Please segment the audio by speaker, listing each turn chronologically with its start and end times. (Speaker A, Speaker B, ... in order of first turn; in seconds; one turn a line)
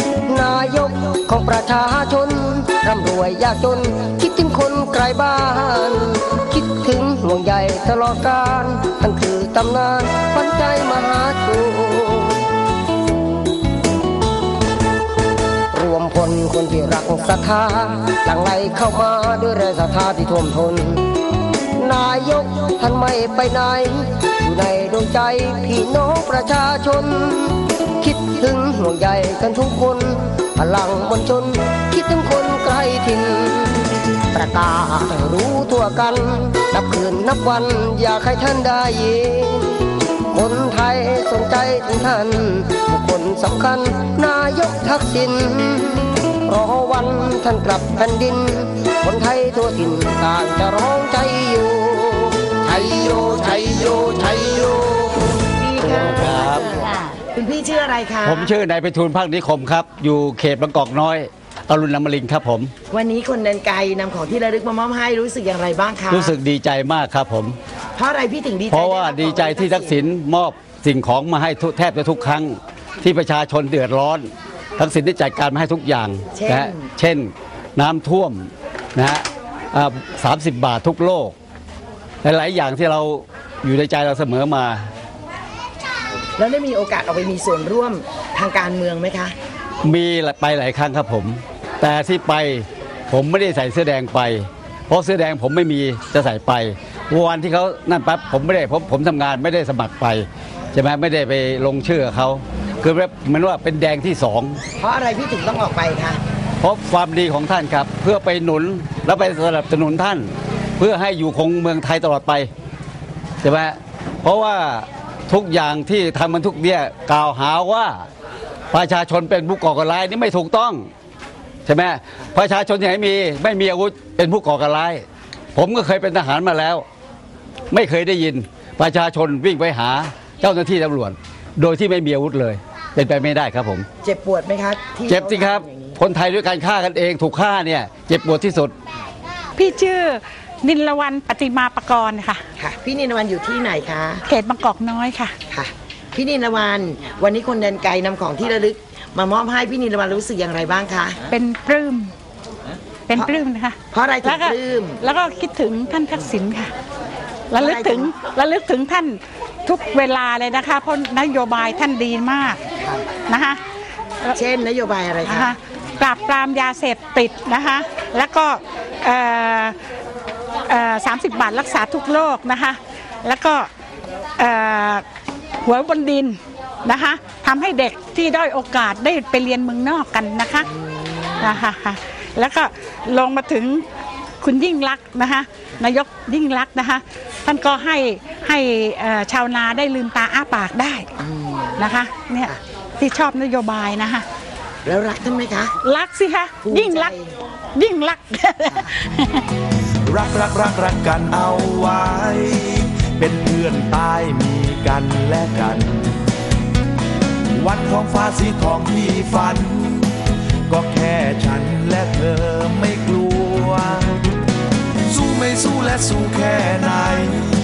Speaker A: 0.3-12.4
Speaker A: 15.7-21.1
Speaker A: 21.8-55.5
Speaker B: 55.5-58.5
Speaker C: 55.8-56.7
Speaker C: 58.2-62.7
Speaker B: 62.9-66.3
Speaker C: 66.1-67.6
Speaker B: 68.0-70.0
Speaker C: 68.7-81.3
Speaker B: 76.3-76.9
Speaker C: 82.2-84.9
Speaker B: 86.4-89.3
Speaker C: 89.8-104.6
Speaker B: 104.8-106.2
Speaker C: 106.6-112.5
Speaker C: 113.4-118.0
Speaker C: 118.7-120.9
Speaker C: 121.7-125.0
Speaker C: 125.5-126.8
Speaker C: 127.7-133.8
Speaker B: 134.0-136.0
Speaker C: 135.1-138.7
Speaker D: 139.6-142.4
Speaker B: 142.6-144.2
Speaker D: 144.3-145.3
Speaker B: 145.5-151.2
Speaker D: 151.3-152.1
Speaker D: 153.1-156.7
Speaker B: 153.9-155.0
Speaker D: 157.5-162.6
Speaker B: 157.6-158.1
Speaker B: 162.8-163.0
Speaker D: 163.3-163.6
Speaker B: 164.3-165.5
Speaker D: 165.3-169.8
Speaker D: 170.7-173.7
Speaker D: 174.4-175.0
Speaker D: 175.6-180.7
Speaker D: 181.4-183.8
Speaker D: 184.4-191.1
Speaker B: 191.2-191.8
Speaker D: 191.8-194.2
Speaker B: 194.8-195.7
Speaker D: 195.8-197.1
Speaker B: 196.6-197.3
Speaker D: 197.7-199.4
Speaker E: 200.1-206.0
Speaker E: 207.6-210.1
Speaker E: 210.7-213.9
Speaker E: 215.1-217.3